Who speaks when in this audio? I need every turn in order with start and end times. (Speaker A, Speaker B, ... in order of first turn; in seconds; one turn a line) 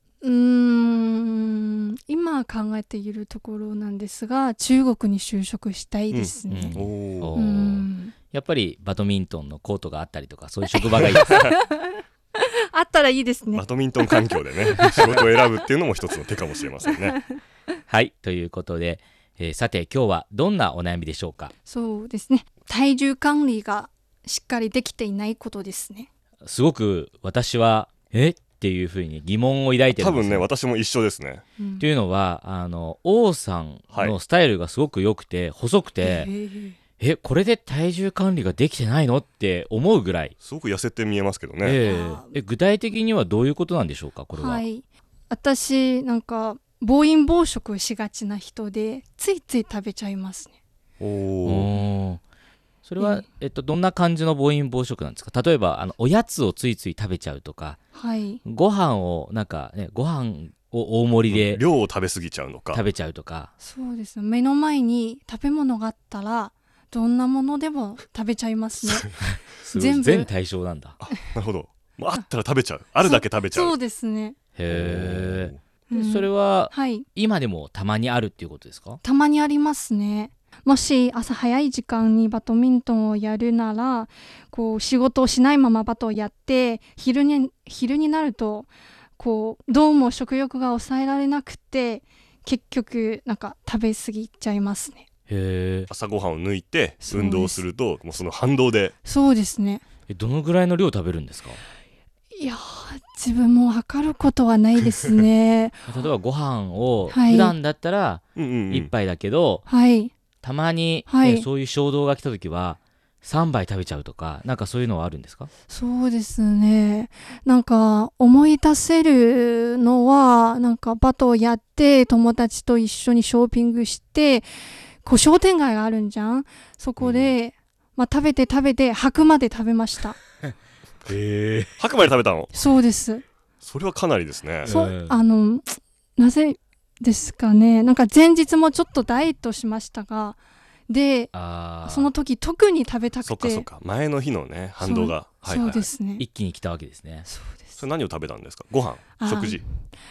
Speaker A: 0.2-8.1
Speaker B: 6.1-7.3
Speaker C: 6.5-11.5
Speaker A: 10.7-15.4
Speaker B: 13.5-17.2
Speaker C: 17.9-21.5
Speaker A: 21.6-26.1
Speaker C: 26.4-30.5
Speaker B: 29.9-31.4
Speaker A: 31.6-31.9
Speaker C: 31.8-36.3
Speaker B: 33.9-34.2
Speaker A: 36.0-36.8
Speaker C: 37.0-40.3
Speaker B: 40.4-41.8
Speaker C: 41.6-44.6
Speaker A: 41.8-42.4
Speaker A: 44.3-50.5
Speaker B: 51.0-51.7
Speaker C: 51.4-52.2
Speaker C: 52.8-57.8
Speaker A: 53.0-53.2
Speaker A: 57.9-58.4
Speaker C: 58.4-61.6
Speaker B: 61.3-62.8
Speaker C: 62.7-63.5
Speaker A: 63.6-69.2
Speaker C: 69.5-71.0
Speaker A: 69.7-70.3
Speaker B: 71.0-73.8
Speaker A: 73.0-74.3
Speaker C: 74.5-79.0
Speaker B: 74.7-75.6
Speaker A: 75.9-77.1
Speaker A: 79.0-95.0
Speaker C: 95.3-95.9
Speaker B: 95.9-98.9
Speaker A: 97.0-97.6
Speaker A: 99.0-99.8
Speaker C: 100.1-101.6
Speaker A: 102.3-105.8
Speaker C: 105.9-109.6
Speaker A: 107.1-107.5
Speaker B: 108.3-108.9
Speaker A: 109.7-110.1
Speaker C: 110.4-115.5
Speaker A: 111.0-111.5
Speaker A: 115.7-124.5
Speaker A: 125.0-130.2
Speaker C: 131.1-131.7
Speaker B: 131.8-132.5
Speaker A: 132.5-133.2
Speaker B: 133.6-134.7
Speaker C: 134.6-135.2
Speaker A: 134.6-143.7
Speaker C: 141.3-142.1
Speaker B: 143.2-145.9
Speaker A: 144.8-146.2
Speaker C: 146.2-147.2
Speaker A: 147.2-147.8
Speaker B: 147.8-149.6
Speaker A: 149.2-149.6